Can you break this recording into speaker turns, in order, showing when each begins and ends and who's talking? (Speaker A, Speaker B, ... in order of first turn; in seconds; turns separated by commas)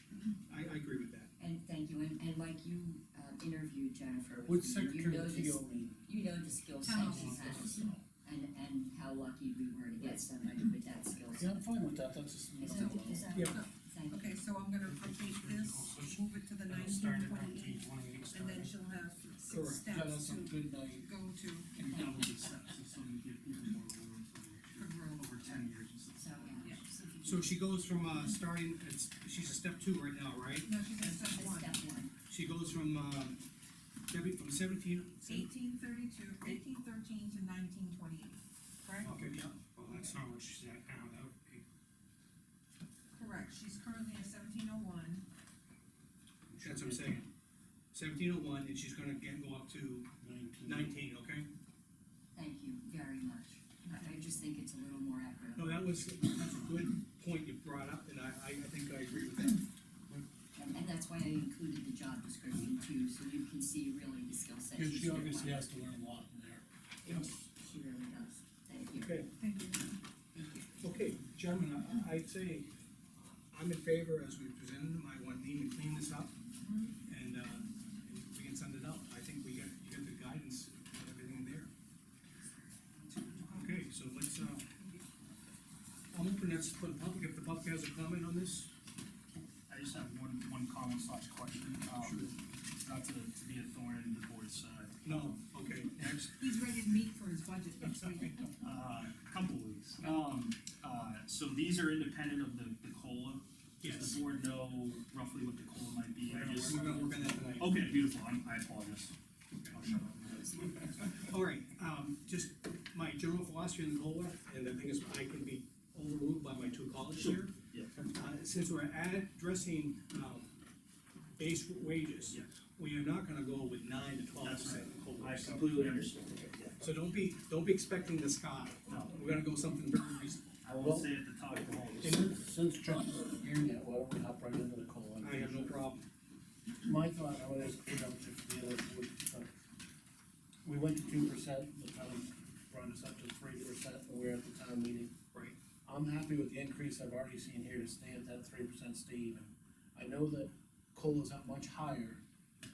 Speaker A: 0.5-1.3, Speaker B: 1.4-11.6, Speaker C: 4.4-6.0, Speaker D: 6.8-7.9, Speaker C: 6.9-8.0, Speaker C: 11.3-13.3, Speaker B: 12.6-14.3, Speaker D: 12.7-21.7, Speaker A: 13.3-13.6, Speaker C: 14.8-18.7, Speaker A: 19.5-19.8, Speaker C: 19.9-21.1, Speaker E: 21.7-26.7, Speaker B: 21.8-22.2, Speaker D: 24.8-25.2, Speaker B: 26.1-27.6, Speaker D: 26.6-26.9, Speaker A: 27.2-30.7, Speaker D: 30.6-31.8, Speaker B: 31.0-32.1, Speaker A: 32.3-33.4, Speaker A: 34.1-35.5, Speaker D: 35.2-39.1, Speaker A: 39.0-40.2, Speaker C: 39.0-41.6, Speaker D: 43.1-45.2, Speaker C: 46.5-47.2, Speaker A: 46.6-47.3, Speaker A: 47.9-50.1, Speaker C: 50.2-51.0, Speaker A: 50.6-51.5, Speaker B: 52.3-55.9, Speaker D: 53.8-54.2, Speaker A: 55.5-59.6, Speaker B: 60.5-65.6, Speaker C: 64.7-66.6, Speaker B: 67.0-69.1, Speaker A: 69.0-69.3, Speaker D: 69.3-70.6, Speaker A: 70.8-72.7, Speaker A: 73.5-76.3, Speaker D: 76.6-77.0, Speaker A: 77.0-81.7, Speaker D: 83.0-83.8, Speaker A: 83.5-84.6, Speaker D: 84.4-85.1, Speaker A: 86.1-88.7, Speaker E: 89.7-95.4, Speaker A: 92.0-92.3, Speaker A: 95.0-96.3, Speaker D: 96.4-98.5, Speaker E: 98.6-111.2, Speaker A: 103.8-104.2, Speaker A: 106.3-107.7, Speaker A: 111.1-120.6, Speaker E: 117.2-118.0, Speaker A: 121.3-126.0, Speaker E: 124.3-126.8, Speaker A: 126.8-130.6, Speaker E: 128.9-129.3, Speaker E: 130.6-132.3, Speaker C: 130.8-131.1, Speaker A: 132.0-132.3, Speaker C: 132.0-135.8, Speaker A: 135.2-136.1, Speaker C: 136.8-139.5, Speaker C: 140.6-145.1, Speaker C: 145.8-152.2